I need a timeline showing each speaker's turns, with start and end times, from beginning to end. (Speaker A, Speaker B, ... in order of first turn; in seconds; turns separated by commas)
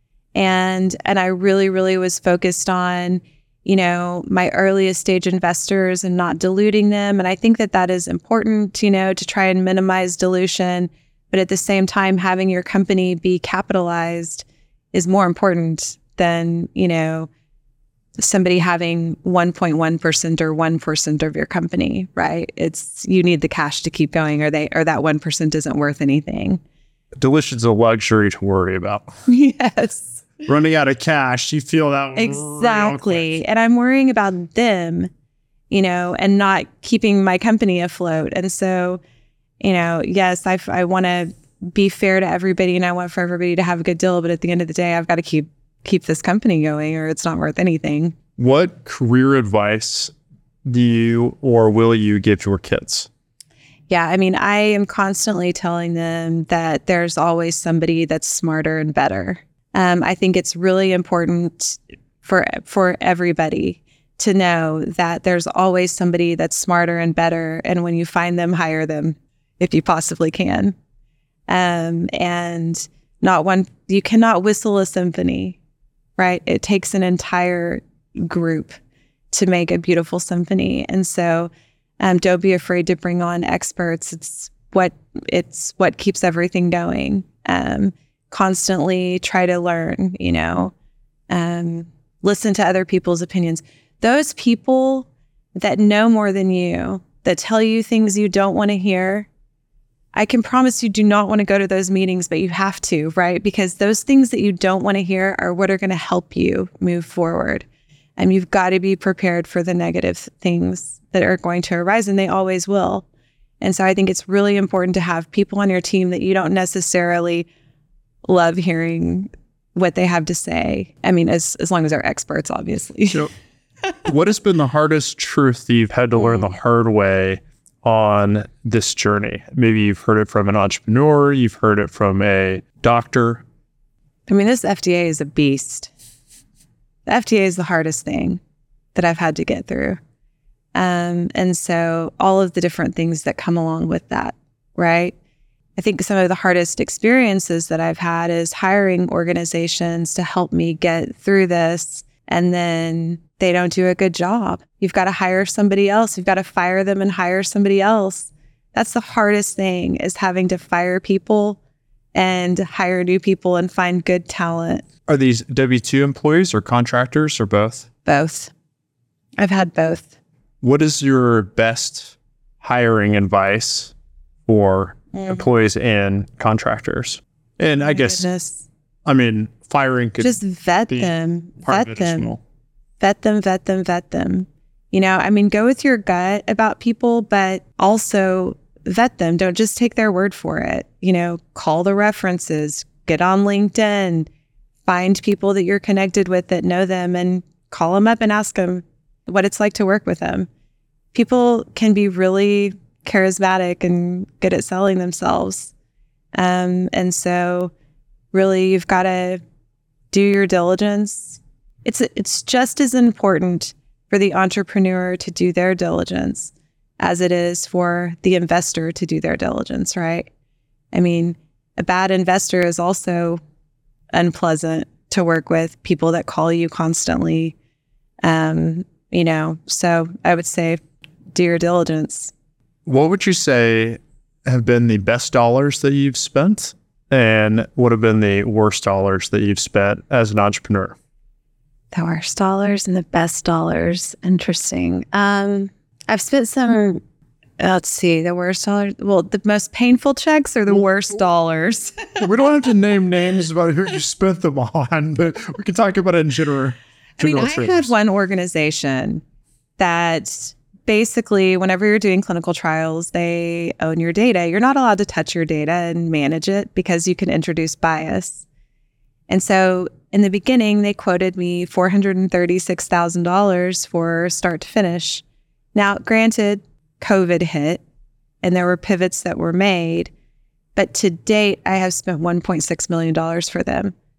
Speaker A: 0.3-17.3, Speaker A: 18.2-26.6, Speaker B: 27.2-29.1, Speaker A: 29.3-30.3, Speaker B: 30.5-33.3, Speaker A: 32.1-35.1, Speaker A: 35.7-39.0, Speaker A: 39.6-48.2, Speaker B: 48.4-50.1, Speaker B: 50.6-53.1, Speaker A: 53.9-70.8, Speaker A: 71.5-75.6, Speaker A: 76.2-78.8, Speaker A: 79.3-90.7, Speaker A: 91.3-99.3, Speaker A: 100.1-107.7, Speaker A: 108.2-113.1, Speaker A: 113.6-117.5, Speaker A: 118.3-123.3, Speaker B: 124.0-133.4, Speaker A: 134.3-135.9, Speaker A: 137.1-138.4, Speaker A: 138.9-140.0, Speaker A: 140.8-145.2, Speaker A: 145.8-161.6, Speaker A: 162.2-164.8, Speaker B: 165.1-167.9, Speaker A: 168.1-168.5, Speaker A: 169.4-170.1, Speaker B: 170.6-173.9, Speaker B: 174.5-178.3, Speaker A: 175.2-175.4, Speaker A: 177.8-178.7, Speaker B: 179.1-180.4, Speaker A: 180.2-182.4, Speaker B: 181.6-182.4, Speaker A: 183.0-194.3, Speaker A: 194.9-200.5, Speaker A: 201.1-205.7, Speaker A: 206.3-207.7, Speaker A: 208.3-209.4, Speaker A: 210.1-220.3, Speaker A: 220.9-223.4, Speaker A: 224.1-227.6, Speaker A: 228.2-230.8, Speaker A: 231.3-232.3, Speaker B: 232.9-241.0, Speaker A: 241.9-247.0, Speaker A: 247.6-252.2, Speaker B: 252.2-257.9, Speaker A: 257.2-259.2, Speaker A: 259.8-268.4, Speaker A: 269.3-275.2, Speaker A: 275.8-277.8, Speaker A: 278.4-280.1, Speaker A: 280.8-283.9